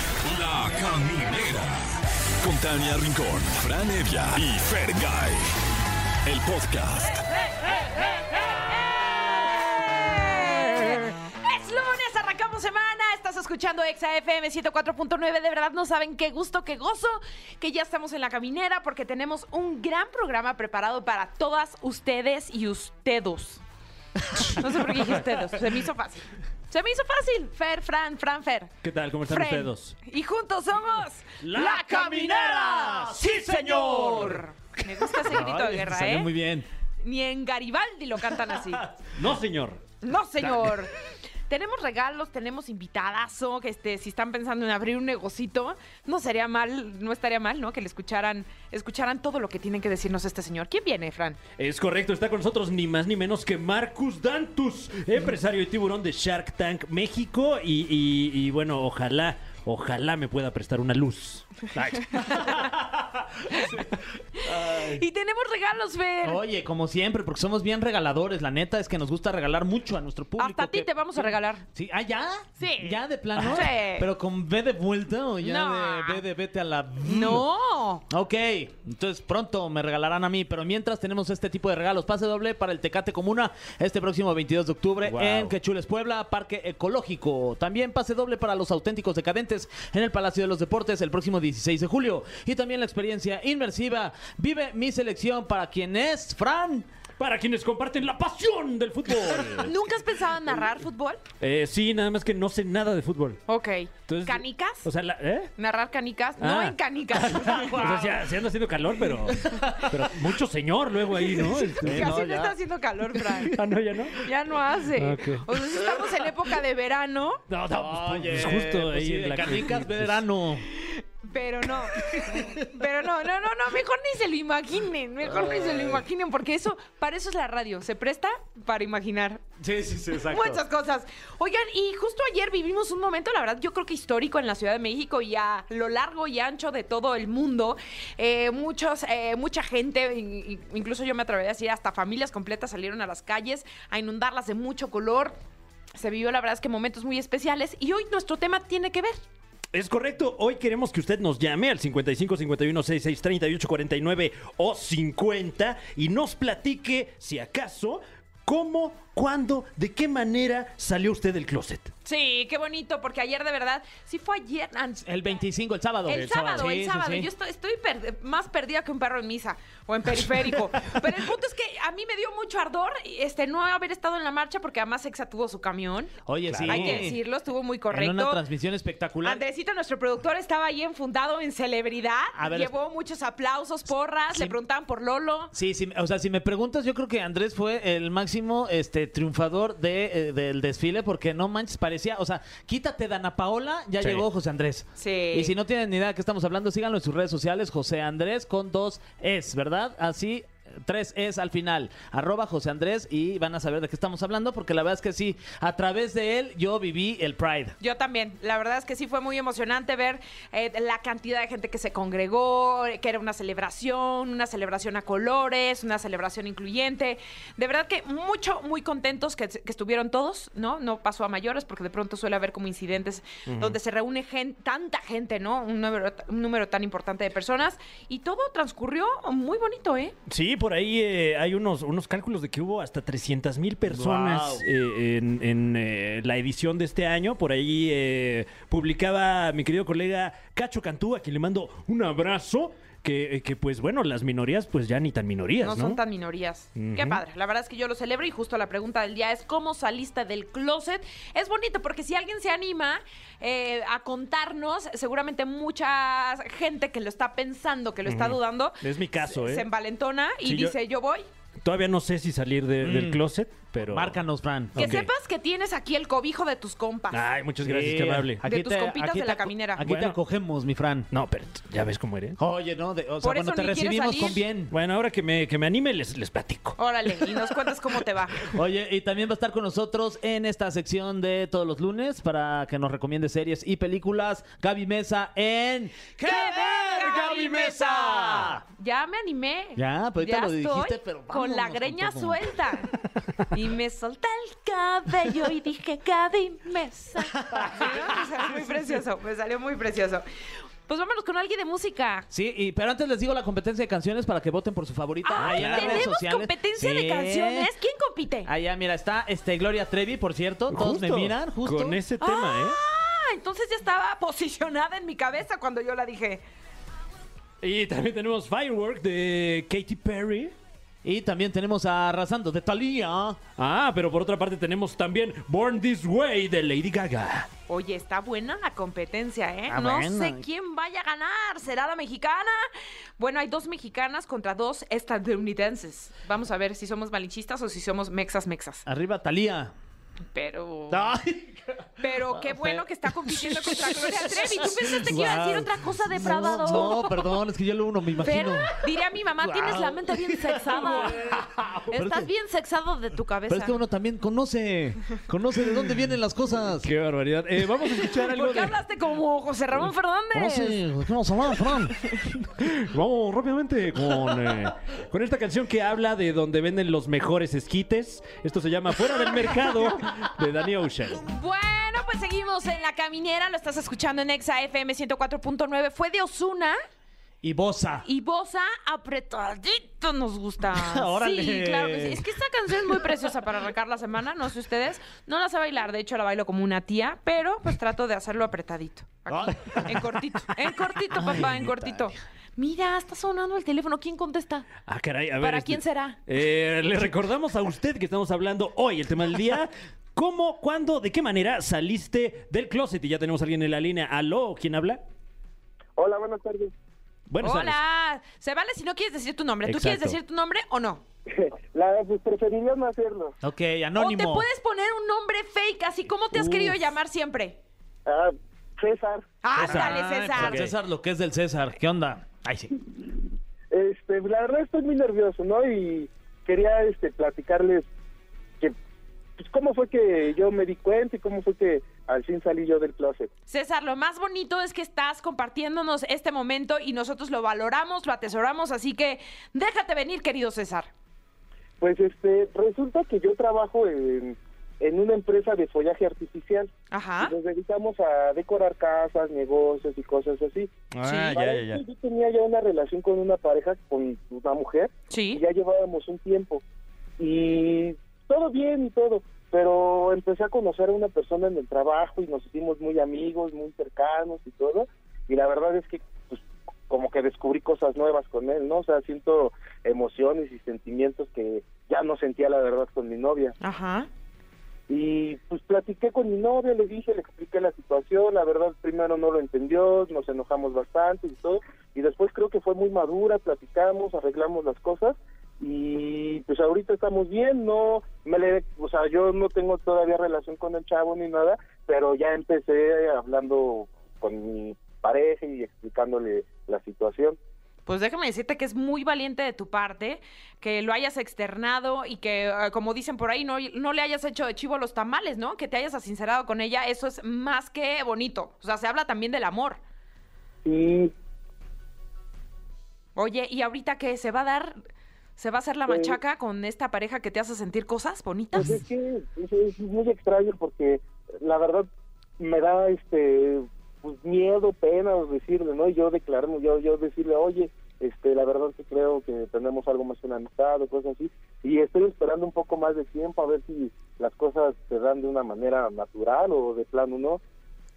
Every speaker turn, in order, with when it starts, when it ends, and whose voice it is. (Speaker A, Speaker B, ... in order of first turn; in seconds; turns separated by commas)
Speaker A: 0.2-1.8, Speaker A: 2.4-5.5, Speaker A: 6.2-7.2, Speaker B: 8.0-23.6, Speaker B: 24.5-28.7, Speaker C: 28.8-30.0, Speaker B: 29.2-36.3, Speaker C: 31.4-34.4, Speaker D: 35.2-36.6, Speaker B: 37.0-38.9, Speaker C: 39.0-39.8, Speaker B: 40.0-40.9, Speaker C: 40.4-40.7, Speaker B: 41.5-51.4, Speaker C: 51.6-63.9, Speaker C: 64.4-65.0, Speaker B: 64.5-66.4, Speaker D: 66.2-77.4, Speaker B: 70.4-71.6, Speaker B: 72.6-74.1, Speaker B: 75.4-76.2, Speaker B: 77.0-78.0, Speaker D: 78.1-96.9, Speaker C: 85.0-85.5, Speaker C: 97.2-99.7, Speaker B: 99.6-101.2, Speaker C: 101.4-103.4, Speaker B: 103.5-104.9, Speaker C: 104.1-105.5, Speaker B: 105.6-108.1, Speaker C: 106.4-112.2, Speaker D: 107.5-108.2, Speaker D: 109.3-109.8, Speaker B: 111.3-113.5, Speaker D: 111.8-112.5, Speaker C: 113.5-114.2, Speaker B: 114.2-117.4, Speaker C: 115.0-115.5, Speaker C: 117.5-120.2, Speaker D: 117.7-120.7, Speaker B: 120.8-129.4, Speaker D: 125.2-126.0, Speaker D: 129.6-130.6, Speaker B: 130.2-145.3, Speaker B: 146.0-149.2, Speaker C: 149.7-161.9, Speaker B: 162.0-165.4, Speaker D: 165.0-167.3, Speaker B: 166.1-178.4, Speaker C: 166.1-166.6, Speaker D: 176.3-177.2, Speaker C: 176.5-177.1, Speaker D: 177.9-179.4, Speaker B: 179.2-185.5, Speaker D: 182.3-182.7, Speaker D: 185.5-207.8, Speaker B: 195.0-195.5, Speaker B: 207.8-230.1, Speaker C: 223.5-223.8, Speaker C: 230.3-246.0, Speaker D: 233.9-234.6, Speaker B: 245.6-261.2, Speaker C: 246.7-247.2, Speaker C: 258.1-259.6, Speaker C: 260.4-260.8, Speaker C: 261.6-264.2, Speaker D: 262.8-263.2, Speaker D: 263.8-265.1, Speaker C: 264.7-265.1, Speaker B: 264.8-267.3, Speaker C: 267.1-268.4, Speaker D: 267.6-271.1, Speaker B: 268.4-269.8, Speaker C: 269.8-270.2, Speaker C: 271.1-272.4, Speaker D: 272.4-274.7, Speaker B: 273.2-274.4, Speaker C: 274.7-276.8, Speaker B: 276.8-278.5, Speaker D: 278.5-288.6, Speaker B: 286.2-292.9, Speaker C: 287.0-288.6, Speaker D: 289.8-292.4, Speaker B: 293.5-300.2, Speaker D: 297.5-297.9, Speaker B: 300.9-302.3, Speaker D: 302.3-307.7, Speaker B: 305.2-308.5, Speaker C: 305.4-306.2, Speaker D: 308.4-312.0, Speaker C: 310.7-312.8, Speaker B: 312.2-316.4, Speaker C: 317.6-320.5, Speaker D: 321.0-323.4, Speaker C: 323.6-327.5, Speaker B: 327.7-338.8, Speaker D: 329.7-330.4, Speaker D: 338.9-339.7, Speaker B: 340.3-341.1, Speaker D: 340.9-341.6, Speaker B: 342.0-347.2, Speaker D: 342.3-348.7, Speaker B: 348.2-351.3, Speaker D: 349.4-351.4, Speaker C: 351.0-351.9, Speaker B: 351.9-353.8, Speaker D: 351.9-352.3, Speaker D: 353.5-356.9, Speaker C: 356.8-358.7, Speaker B: 358.0-360.8, Speaker D: 360.3-361.9, Speaker B: 361.9-362.2, Speaker C: 362.6-371.2, Speaker D: 363.9-364.4, Speaker B: 371.2-376.8, Speaker D: 377.4-378.1, Speaker B: 378.0-394.7, Speaker D: 380.7-382.2, Speaker D: 389.3-390.1, Speaker D: 391.1-392.2, Speaker C: 394.8-405.0, Speaker B: 395.4-396.2, Speaker E: 406.0-406.7, Speaker C: 407.3-407.8, Speaker B: 407.4-411.0, Speaker C: 409.6-410.2, Speaker E: 411.3-413.4, Speaker D: 413.4-414.5, Speaker B: 414.0-417.6, Speaker D: 416.3-416.8, Speaker E: 418.1-419.3, Speaker B: 419.4-420.7, Speaker C: 419.6-420.7, Speaker D: 419.6-422.7, Speaker E: 423.7-427.9, Speaker E: 429.4-433.3, Speaker B: 433.5-440.9, Speaker E: 441.8-456.6, Speaker B: 446.9-447.3, Speaker C: 450.9-451.8, Speaker B: 455.1-455.4, Speaker E: 457.2-473.6, Speaker B: 473.6-474.1, Speaker E: 474.9-497.4, Speaker B: 497.9-509.8, Speaker E: 510.6-511.1, Speaker B: 513.1-514.8, Speaker B: 515.4-518.8, Speaker E: 515.9-516.2, Speaker E: 518.5-537.4